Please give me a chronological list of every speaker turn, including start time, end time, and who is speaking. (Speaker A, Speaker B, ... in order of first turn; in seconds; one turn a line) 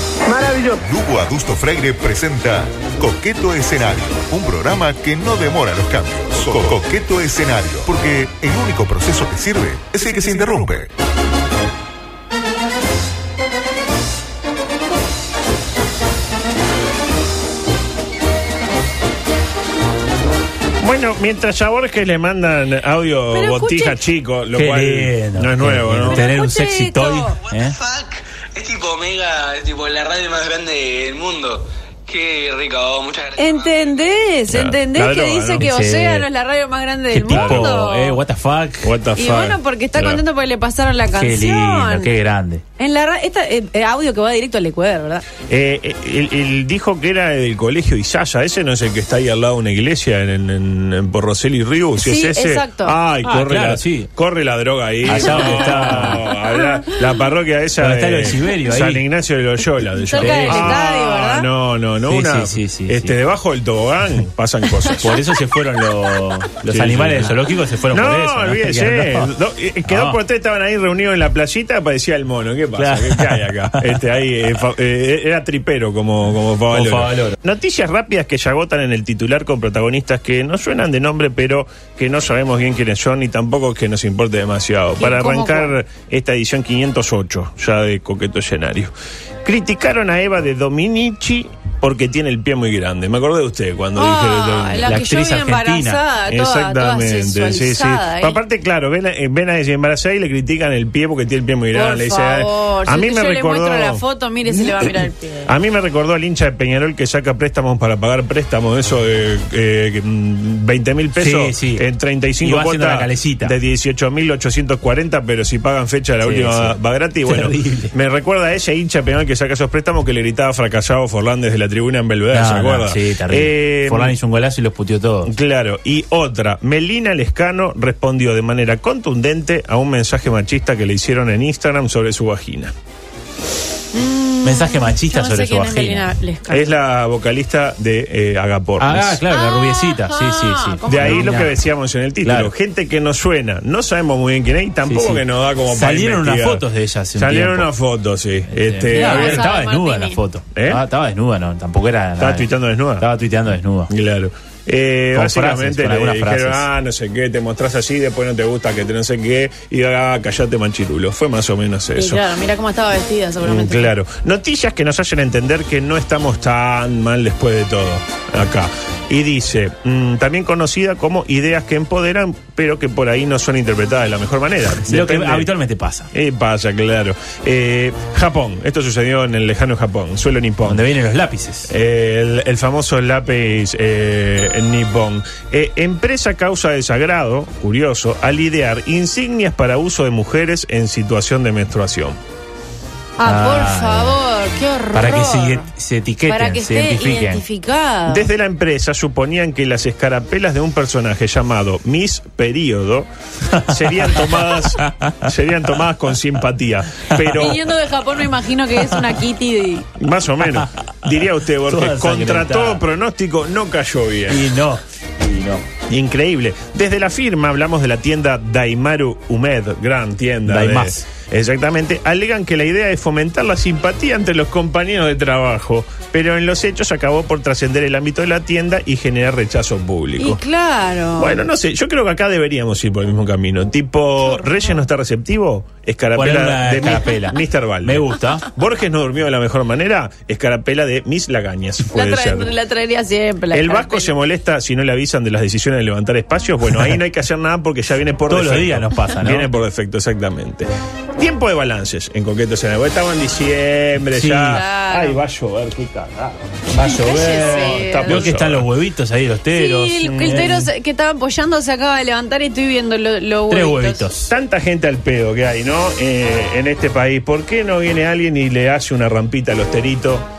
Speaker A: 0.2-0.8
Speaker B: 0.8-10.9
Speaker C: 20.8-26.2
Speaker D: 23.3-24.0
Speaker E: 24.5-27.7
Speaker D: 26.1-27.4
Speaker A: 27.5-34.0
Speaker D: 33.4-38.2
Speaker C: 34.5-35.7
Speaker E: 35.6-36.2
Speaker E: 37.1-38.9
Speaker C: 37.3-37.7
Speaker C: 38.8-40.2
Speaker D: 39.1-42.1
Speaker E: 41.1-42.6
Speaker D: 42.8-45.2
Speaker C: 45.5-65.1
Speaker D: 52.0-53.0
Speaker E: 53.2-54.1
Speaker E: 55.0-56.2
Speaker D: 55.3-56.8
Speaker E: 57.8-59.0
Speaker D: 59.9-61.5
Speaker E: 60.2-60.7
Speaker E: 62.1-63.1
Speaker E: 65.0-69.3
Speaker C: 66.7-67.3
Speaker C: 67.9-88.9
Speaker E: 69.9-70.2
Speaker E: 72.8-74.0
Speaker E: 76.7-77.3
Speaker D: 85.0-85.7
Speaker C: 89.4-94.9
Speaker D: 94.0-98.4
Speaker E: 94.8-96.0
Speaker C: 96.3-104.0
Speaker D: 101.7-105.5
Speaker C: 105.5-124.2
Speaker E: 111.2-111.8
Speaker E: 112.4-113.5
Speaker E: 116.2-117.9
Speaker E: 122.3-125.3
Speaker C: 125.2-132.7
Speaker D: 133.9-136.7
Speaker E: 134.4-136.1
Speaker C: 136.5-139.2
Speaker E: 138.8-141.5
Speaker D: 139.3-141.5
Speaker C: 140.9-146.6
Speaker E: 142.2-142.5
Speaker E: 144.9-147.7
Speaker C: 147.2-149.5
Speaker E: 148.5-152.5
Speaker D: 148.9-150.2
Speaker C: 150.5-150.8
Speaker C: 152.2-153.1
Speaker E: 153.0-153.9
Speaker C: 153.9-162.2
Speaker E: 155.1-156.7
Speaker D: 161.9-163.9
Speaker C: 163.4-175.5
Speaker E: 174.9-176.1
Speaker C: 176.1-180.8
Speaker E: 180.6-181.7
Speaker C: 181.7-192.2
Speaker D: 193.2-195.7
Speaker E: 193.2-194.2
Speaker E: 194.9-197.4
Speaker D: 196.3-198.3
Speaker C: 198.1-207.6
Speaker E: 204.8-205.1
Speaker D: 207.3-209.9
Speaker C: 210.0-214.5
Speaker E: 211.7-212.8
Speaker E: 214.3-215.6
Speaker C: 215.9-230.4
Speaker E: 220.4-221.0
Speaker D: 230.2-231.4
Speaker C: 231.2-242.5
Speaker E: 236.1-238.5
Speaker D: 241.9-244.1
Speaker C: 243.5-258.7
Speaker E: 248.3-249.5
Speaker E: 254.1-254.6
Speaker D: 254.5-255.2
Speaker D: 256.8-258.3
Speaker E: 256.8-260.6
Speaker D: 259.5-264.1
Speaker C: 260.0-260.6
Speaker E: 263.5-264.3
Speaker C: 264.3-270.2